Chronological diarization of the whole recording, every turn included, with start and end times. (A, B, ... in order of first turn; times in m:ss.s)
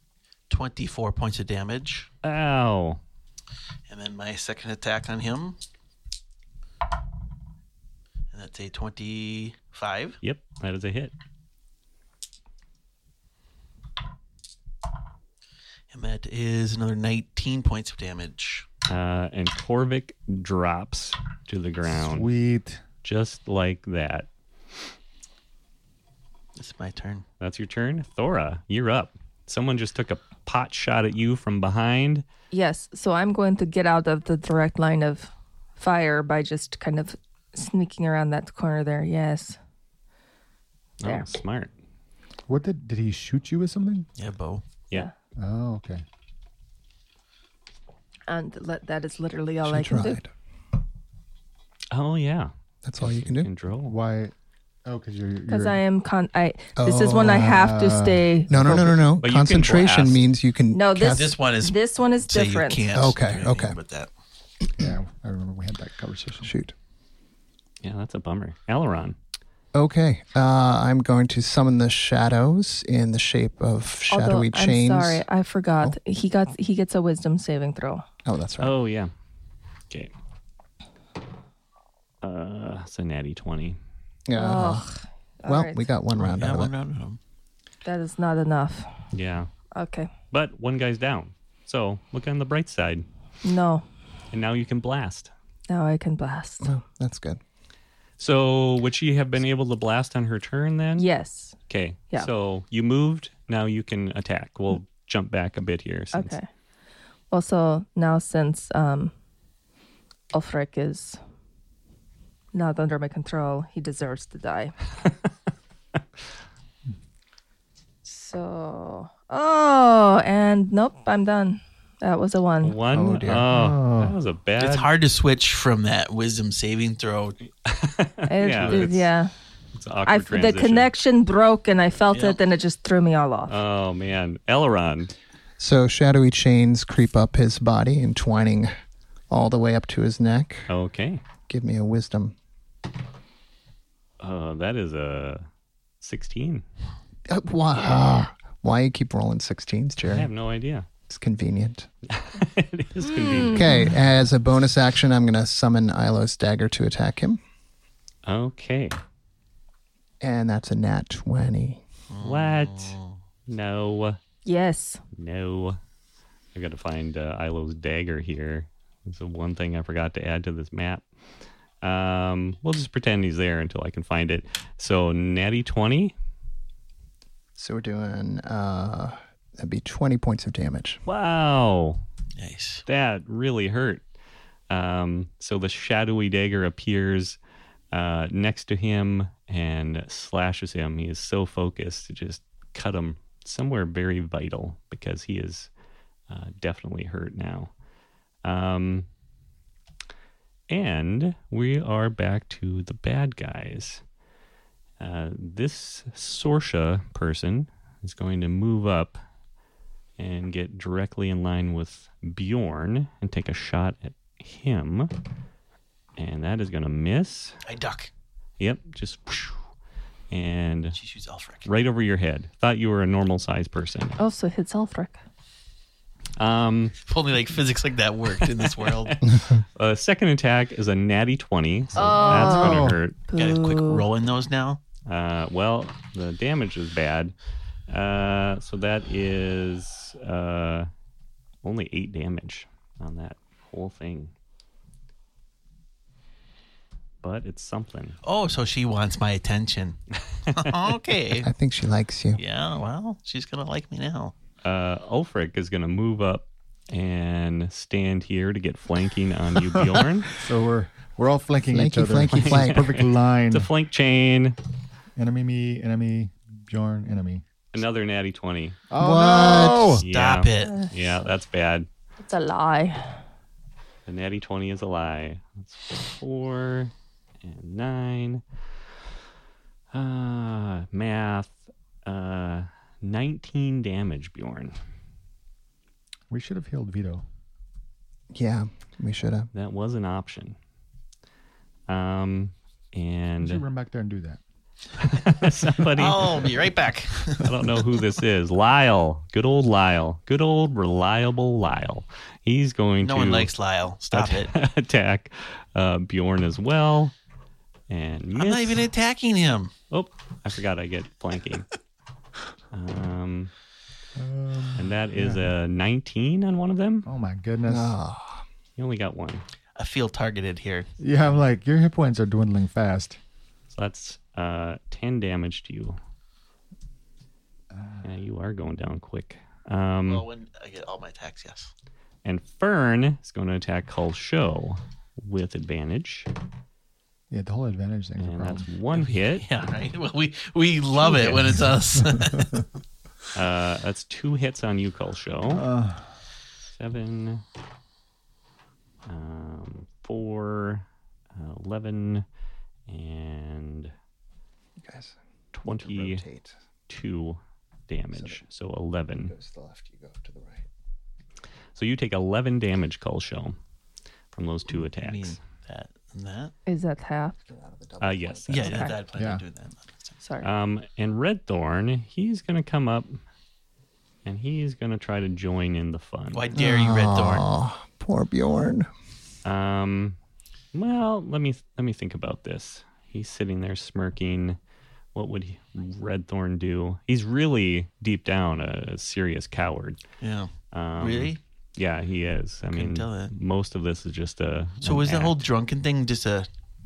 0:00.5-0:02.1 A
0:02.2-0:03.0 B
0:03.9-0:05.6 A
0:08.3-0:10.2 A
0:10.2-0:11.1 B
0:15.9-0:18.7 A
0:18.9-0:22.3 B
0:21.9-0:22.8 C
0:23.0-0:24.3 B
0:26.6-0:27.2 A
0:27.4-0:32.2 B
0:32.5-0:39.6 D
0:41.0-0:41.7 B
0:42.5-0:44.1 C
0:44.2-0:44.6 A
0:45.4-0:46.0 C
0:48.3-0:50.2 D
0:49.6-0:50.3 E
0:51.9-0:54.0 B
0:52.8-0:53.5 E
0:53.8-0:54.3 C
0:54.8-0:55.8 C
0:55.5-0:58.9 D
0:56.8-0:57.6 E
0:57.2-0:58.6 C
0:58.5-1:01.3 E
0:58.7-1:00.3 B
1:00.7-1:02.9 D
1:01.1-1:04.1 A
1:02.9-1:03.8 E
1:04.8-1:06.5 C
1:06.4-1:06.7 E
1:07.8-1:09.2 B
1:09.7-1:15.2 E
1:14.1-1:18.0 D
1:18.2-1:18.7 E
1:18.6-1:19.1 B
1:22.2-1:23.8 B
1:24.3-1:24.9 E
1:24.4-1:25.9 D
1:25.4-1:26.7 E
1:26.1-1:27.2 A
1:27.8-1:28.9 D
1:29.1-1:29.5 B
1:29.7-1:30.1 D
1:30.3-1:33.0 B
1:33.4-1:33.8 D
1:34.3-1:35.3 B
1:35.7-1:36.7 D
1:36.6-1:37.4 E
1:38.2-1:41.0 B
1:41.0-1:41.6 D
1:41.7-1:46.4 B
1:46.1-1:46.5 D
1:47.3-1:49.1 D
1:50.3-1:51.2 D
1:52.5-1:54.7 D
1:58.0-2:02.8 D
2:02.6-2:04.9 B
2:02.9-2:03.5 E
2:03.5-2:04.1 C
2:04.6-2:07.4 A
2:07.6-2:09.1 B
2:08.2-2:09.3 D
2:09.7-2:10.9 B
2:10.0-2:13.6 D
2:12.1-2:12.4 A
2:13.5-2:15.1 B
2:15.6-2:18.7 E
2:19.3-2:20.7 E
2:20.7-2:21.2 B
2:21.5-2:22.3 E
2:24.2-2:25.4 B
2:26.0-2:26.6 B
2:27.3-2:30.3 E
2:30.1-2:30.9 B
2:31.1-2:31.9 E
2:32.1-2:33.8 B
2:33.0-2:33.8 D
2:33.5-2:37.4 E
2:38.2-2:39.0 B
2:40.2-2:41.8 E
2:42.1-2:43.2 A
2:42.2-2:42.9 B
2:43.5-2:44.2 B
2:44.4-2:45.0 D
2:45.1-2:45.8 B
2:46.5-2:51.0 B
2:51.8-2:56.1 B
2:57.6-3:01.0 E
3:01.0-3:02.0 B
3:02.4-3:02.8 A
3:02.8-3:04.0 B
3:04.7-3:07.4 B
3:07.9-3:15.7 B
3:16.3-3:17.7 B
3:18.4-3:19.1 B
3:20.7-3:24.0 B
3:25.0-3:29.2 B
3:30.2-3:35.1 B
3:36.2-3:37.6 B
3:37.6-3:38.1 A
3:38.6-3:39.6 B
3:40.3-3:41.0 B
3:40.9-3:41.7 A
3:41.6-3:44.2 B
3:44.2-3:45.2 D
3:46.4-3:47.0 B
3:47.0-3:49.2 A
3:48.4-3:53.2 B
3:52.0-3:54.0 D
3:52.2-3:53.0 C
3:53.3-3:54.8 A
3:55.0-3:57.3 B
3:57.9-4:00.9 B
4:01.6-4:04.3 B
4:07.2-4:08.2 B
4:08.2-4:10.0 A
4:10.4-4:10.8 B
4:10.5-4:11.5 A
4:11.4-4:12.4 E
4:12.4-4:14.3 A
4:14.6-4:20.3 B
4:20.3-4:23.7 C
4:21.7-4:22.9 E
4:22.3-4:24.6 B
4:25.2-4:27.4 C
4:27.7-4:28.8 B
4:28.9-4:30.0 C
4:29.0-4:30.0 E
4:30.0-4:31.9 B
4:30.0-4:30.8 A
4:30.6-4:30.9 D
4:32.2-4:33.2 D
4:34.1-4:38.4 B
4:39.9-4:44.8 B
4:46.3-4:47.2 C
4:48.3-4:49.5 E
4:49.5-4:50.6 B
4:51.9-4:53.6 B
4:53.4-4:54.4 C
4:55.0-4:56.5 B
4:55.9-4:57.6 A
4:57.4-5:03.5 B
5:03.0-5:04.5 A
5:04.1-5:07.1 B
5:07.9-5:08.9 B
5:08.3-5:09.7 A
5:09.9-5:11.7 B
5:12.7-5:13.5 B
5:14.2-5:15.5 C
5:14.8-5:17.1 B
5:17.0-5:18.0 C
5:17.6-5:18.4 E
5:18.8-5:19.4 B
5:19.8-5:20.9 A
5:21.0-5:23.2 C
5:23.7-5:26.0 B
5:27.7-5:28.1 C
5:28.0-5:30.2 B
5:30.0-5:31.7 A
5:32.2-5:36.3 B
5:37.3-5:38.7 C
5:38.2-5:39.4 B
5:38.9-5:42.6 A
5:41.1-5:41.5 B
5:43.3-5:45.6 B
5:45.5-5:46.1 C
5:46.8-5:47.4 B
5:49.0-5:52.2 B
5:52.9-5:53.9 B
5:54.8-5:56.5 E
5:55.5-5:56.2 B
5:56.9-5:59.3 B
5:58.1-5:58.4 E
5:59.2-6:00.6 E
6:01.8-6:03.6 B
6:04.3-6:05.4 B
6:04.7-6:06.5 A
6:06.6-6:07.4 D
6:07.4-6:08.7 E
6:08.0-6:08.8 B
6:08.5-6:10.2 A
6:08.6-6:08.9 D
6:09.2-6:09.4 C
6:10.2-6:10.5 D
6:10.4-6:13.2 B
6:14.2-6:16.5 B
6:16.3-6:17.4 A
6:16.5-6:18.9 E
6:19.4-6:20.2 B
6:20.7-6:24.6 B
6:25.1-6:30.0 B
6:30.2-6:31.4 A
6:30.7-6:35.4 B
6:32.7-6:33.3 A
6:34.8-6:36.5 A